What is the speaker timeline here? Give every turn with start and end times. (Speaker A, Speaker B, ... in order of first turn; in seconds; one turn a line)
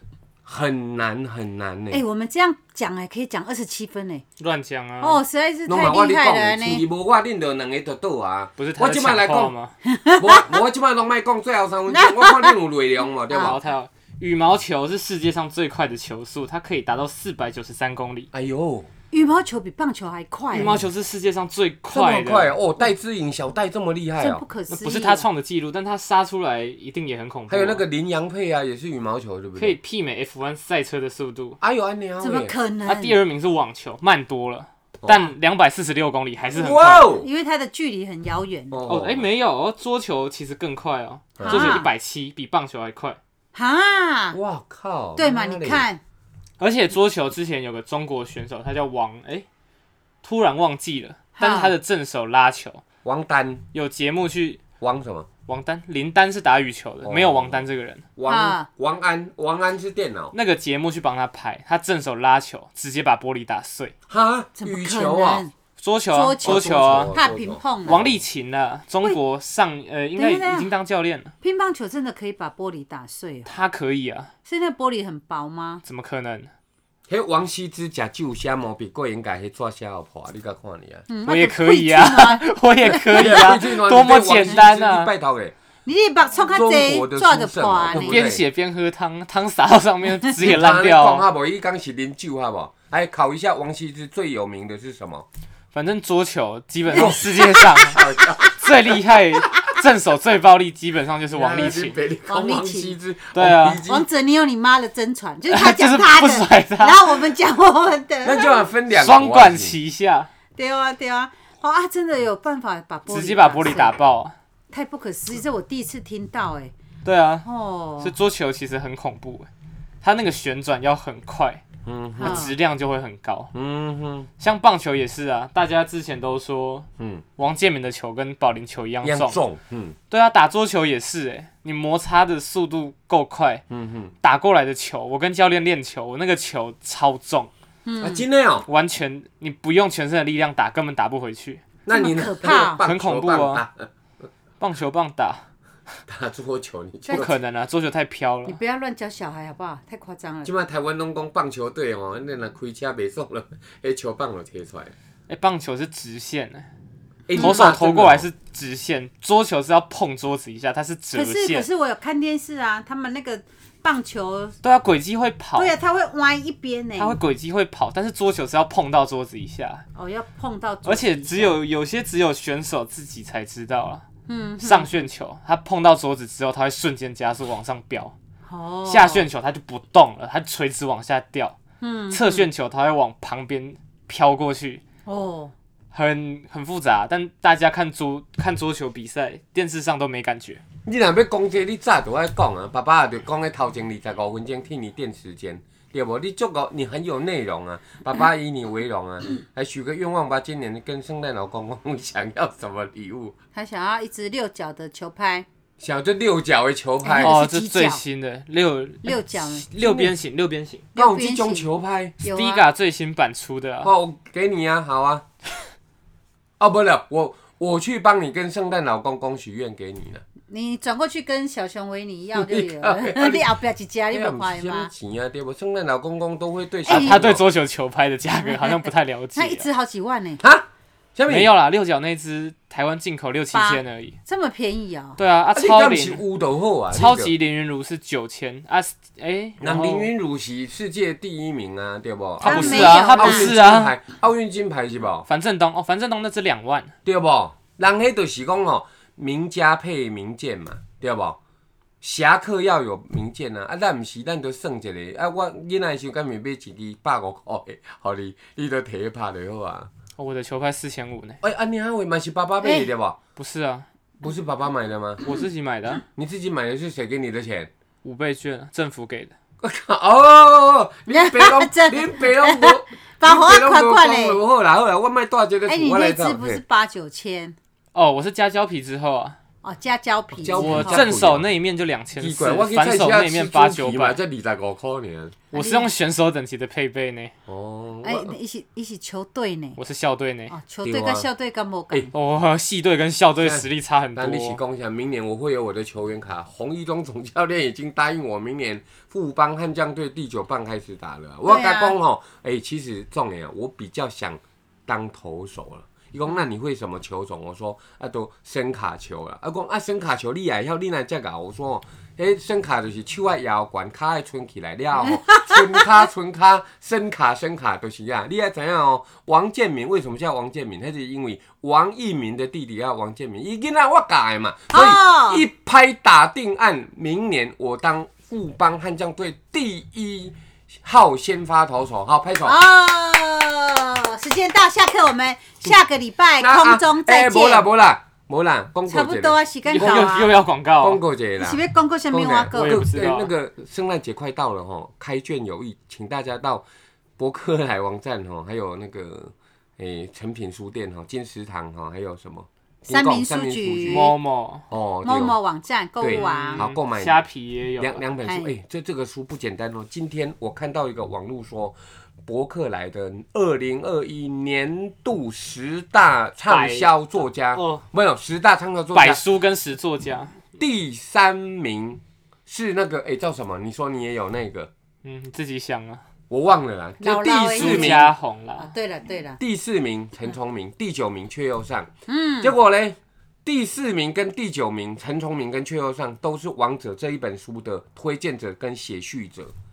Speaker A: 0.4-2.0
Speaker B: 1.9-4.2
Speaker C: 4.4-5.2
Speaker B: 5.0-6.8
Speaker A: 5.7-9.5
Speaker C: 8.6-9.7
Speaker B: 9.8-10.5
Speaker A: 10.2-13.6
Speaker B: 11.9-12.6
Speaker B: 13.3-13.6
Speaker C: 13.4-18.3
Speaker A: 18.3-18.9
Speaker B: 19.1-20.8
Speaker C: 20.5-22.5
Speaker A: 21.9-24.4
Speaker B: 24.2-25.2
Speaker C: 24.7-27.8
Speaker A: 27.5-29.8
Speaker C: 29.6-31.6
Speaker A: 31.6-32.5
Speaker B: 32.2-33.2
Speaker C: 32.9-37.1
Speaker A: 35.0-35.3
Speaker A: 36.5-37.3
Speaker B: 37.1-38.8
Speaker A: 38.7-39.3
Speaker C: 38.9-43.2
Speaker A: 41.4-41.8
Speaker B: 41.4-41.9
Speaker B: 43.5-44.4
Speaker A: 44.3-45.8
Speaker B: 45.1-46.0
Speaker C: 46.6-49.5
Speaker C: 50.2-52.8
Speaker B: 51.4-51.7
Speaker A: 53.0-53.6
Speaker C: 53.7-54.6
Speaker A: 54.8-55.3
Speaker C: 55.5-58.0
Speaker A: 57.0-60.3
Speaker B: 58.3-58.7
Speaker C: 60.3-63.9
Speaker A: 64.1-65.5
Speaker B: 64.5-65.5
Speaker C: 65.8-67.2
Speaker B: 66.1-68.0
Speaker A: 66.4-68.2
Speaker C: 67.8-71.3
Speaker B: 70.2-70.7
Speaker B: 71.4-73.5
Speaker C: 73.5-74.3
Speaker B: 74.5-75.8
Speaker C: 75.8-76.5
Speaker A: 77.1-81.0
Speaker B: 81.1-83.6
Speaker C: 81.2-85.1
Speaker A: 83.1-85.5
Speaker B: 85.8-88.3
Speaker A: 86.5-88.4
Speaker C: 87.9-91.2
Speaker A: 90.4-95.2
Speaker C: 95.7-102.0
Speaker A: 96.9-99.0
Speaker B: 96.9-97.7
Speaker A: 101.3-104.1
Speaker B: 102.3-103.0
Speaker C: 103.3-103.8
Speaker B: 103.8-108.5
Speaker C: 105.5-107.2
Speaker A: 108.2-109.8
Speaker C: 108.9-110.3
Speaker B: 110.5-113.9
Speaker C: 113.1-114.3
Speaker B: 114.7-116.7
Speaker C: 117.0-117.5
Speaker B: 117.4-118.1
Speaker C: 118.0-119.5
Speaker C: 120.0-121.6
Speaker A: 121.8-122.5
Speaker B: 122.2-122.5
Speaker C: 122.2-123.5
Speaker A: 123.5-124.3
Speaker C: 124.4-129.4
Speaker A: 127.0-127.2
Speaker A: 129.0-130.0
Speaker C: 130.1-133.6
Speaker A: 133.7-134.1
Speaker C: 134.2-137.5
Speaker B: 137.8-138.2
Speaker A: 138.0-138.7
Speaker C: 138.7-141.6
Speaker A: 141.8-143.9
Speaker B: 141.9-142.8
Speaker C: 142.8-143.6
Speaker C: 144.6-145.4
Speaker A: 146.1-147.3
Speaker C: 147.1-148.6
Speaker B: 148.4-150.5
Speaker A: 150.4-154.9
Speaker C: 155.3-156.7
Speaker A: 157.3-158.3
Speaker C: 157.3-161.7
Speaker B: 157.4-157.6
Speaker B: 161.1-164.6
Speaker C: 164.6-165.7
Speaker B: 165.6-167.2
Speaker C: 167.0-169.8
Speaker B: 169.9-171.6
Speaker C: 170.8-174.1
Speaker B: 174.3-175.1
Speaker C: 174.6-178.1
Speaker B: 178.4-179.2
Speaker C: 178.8-181.6
Speaker B: 181.8-182.4
Speaker C: 182.1-184.8
Speaker B: 185.1-185.5
Speaker C: 185.9-190.6
Speaker A: 190.8-203.3
Speaker B: 203.5-205.4
Speaker A: 205.8-207.4
Speaker B: 207.0-208.0
Speaker C: 207.1-210.9
Speaker B: 209.0-210.1
Speaker B: 210.9-211.7
Speaker A: 210.9-212.2
Speaker B: 212.2-212.6
Speaker C: 212.2-213.9
Speaker A: 213.8-215.2
Speaker A: 216.6-220.2
Speaker B: 220.5-224.9
Speaker A: 222.3-223.4
Speaker A: 224.1-227.4
Speaker B: 226.9-227.2
Speaker C: 226.9-229.7
Speaker B: 228.4-230.4
Speaker A: 230.4-231.5
Speaker C: 231.3-234.2
Speaker B: 233.5-235.2
Speaker C: 235.2-236.2
Speaker A: 235.5-237.3
Speaker C: 236.9-240.1
Speaker A: 239.6-245.3
Speaker C: 242.4-243.9
Speaker B: 242.4-243.5
Speaker C: 245.3-246.9
Speaker A: 247.0-251.4
Speaker A: 252.0-259.9
Speaker C: 260.2-261.4
Speaker A: 261.4-263.2
Speaker B: 262.6-262.9
Speaker C: 263.4-263.9
Speaker A: 264.2-265.2
Speaker C: 265.2-266.0
Speaker A: 266.1-267.7
Speaker C: 268.0-269.3
Speaker A: 269.6-276.6
Speaker B: 271.1-274.4
Speaker B: 275.6-277.6
Speaker C: 277.9-279.4
Speaker B: 279.6-281.1
Speaker A: 280.3-281.5
Speaker C: 280.6-284.2
Speaker A: 282.2-285.4
Speaker C: 285.5-287.3
Speaker B: 285.5-285.9
Speaker A: 287.5-288.4
Speaker B: 288.0-289.8
Speaker C: 289.8-290.5
Speaker B: 290.5-292.1
Speaker A: 290.8-291.3
Speaker C: 292.1-294.6
Speaker A: 293.4-332.6
Speaker B: 301.4-302.0
Speaker B: 315.0-315.9
Speaker B: 324.7-325.4
Speaker B: 332.4-337.6
Speaker A: 336.4-340.2
Speaker B: 338.9-340.3
Speaker C: 339.7-341.0
Speaker A: 340.8-346.6
Speaker B: 341.4-342.9
Speaker C: 342.5-343.3
Speaker A: 347.2-354.1
Speaker B: 352.9-354.1
Speaker C: 353.9-354.6
Speaker A: 354.7-355.4
Speaker B: 355.0-356.7
Speaker A: 356.0-357.2
Speaker C: 356.1-358.0
Speaker A: 357.8-369.2
Speaker B: 358.2-358.5
Speaker C: 366.5-366.9
Speaker C: 367.5-367.8
Speaker C: 368.9-370.4
Speaker A: 370.6-374.7
Speaker C: 375.0-376.0
Speaker A: 376.3-378.1
Speaker B: 377.0-379.4
Speaker C: 377.5-378.7
Speaker A: 379.4-381.9
Speaker B: 382.1-382.5
Speaker A: 382.4-389.5